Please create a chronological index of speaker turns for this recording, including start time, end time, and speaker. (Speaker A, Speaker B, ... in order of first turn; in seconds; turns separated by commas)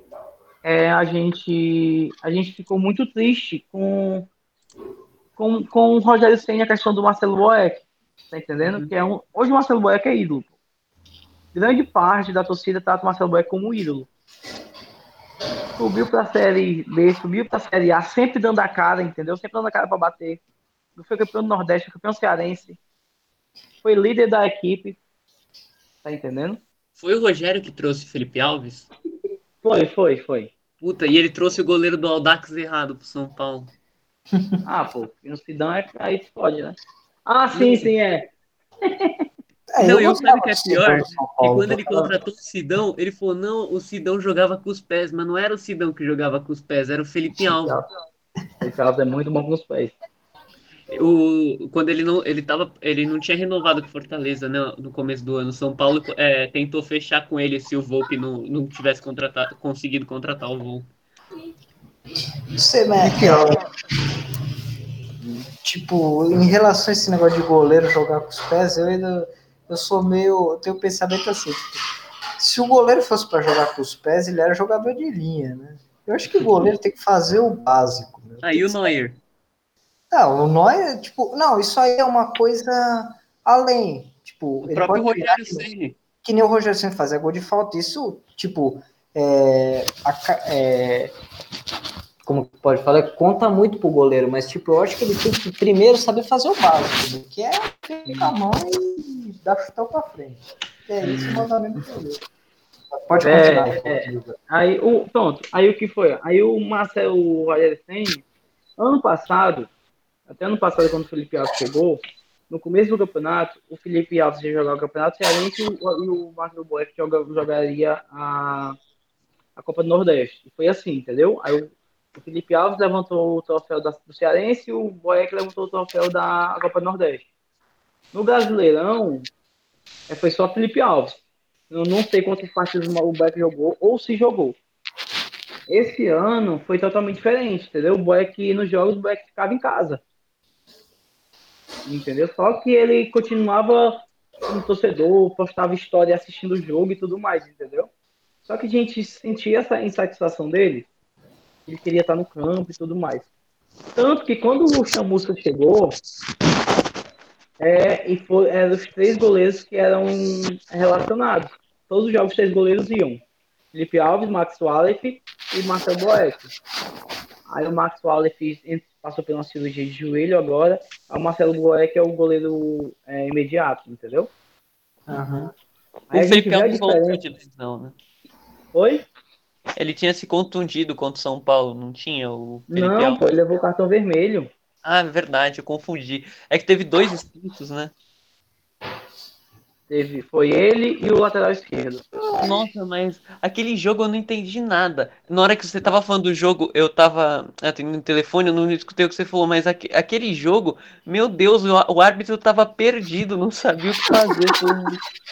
Speaker A: 0.6-4.3, Speaker A: 5.4-10.5, Speaker B: 8.6-8.9, Speaker A: 11.5-14.1, Speaker A: 15.8-20.4, Speaker A: 20.9-22.8, Speaker A: 23.8-25.0, Speaker A: 26.0-26.6, Speaker B: 27.0-28.9, Speaker A: 29.6-30.5, Speaker B: 30.8-33.7, Speaker A: 34.6-38.3, Speaker A: 38.8-39.2, Speaker C: 39.7-41.8, Speaker B: 39.8-47.8, Speaker A: 48.6-49.9, Speaker B: 50.9-60.9, Speaker C: 62.5-63.6, Speaker A: 63.2-63.6, Speaker C: 65.6-71.7, Speaker C: 72.4-78.8, Speaker B: 78.4-79.2, Speaker C: 80.1-85.7, Speaker B: 84.6-86.0, Speaker C: 86.2-91.1, Speaker C: 92.2-102.2, Speaker A: 98.1-98.3, Speaker A: 101.0-101.5, Speaker C: 102.9-104.3, Speaker A: 103.2-108.2, Speaker A: 108.8-109.7, Speaker A: 110.3-118.8, Speaker A: 119.5-127.2, Speaker A: 128.1-129.3, Speaker A: 130.1-134.6, Speaker A: 135.7-140.0, Speaker A: 141.8-147.9, Speaker A: 148.4-150.9, Speaker A: 151.7-153.3, Speaker A: 153.9-155.9, Speaker A: 157.6-166.5, Speaker A: 167.5-174.3, Speaker C: 175.1-175.5, Speaker A: 176.1-177.2, Speaker B: 176.1-177.9, Speaker A: 178.7-179.1, Speaker B: 179.8-183.4, Speaker A: 182.7-184.5, Speaker B: 184.8-187.9, Speaker A: 189.9-192.1, Speaker B: 192.3-204.9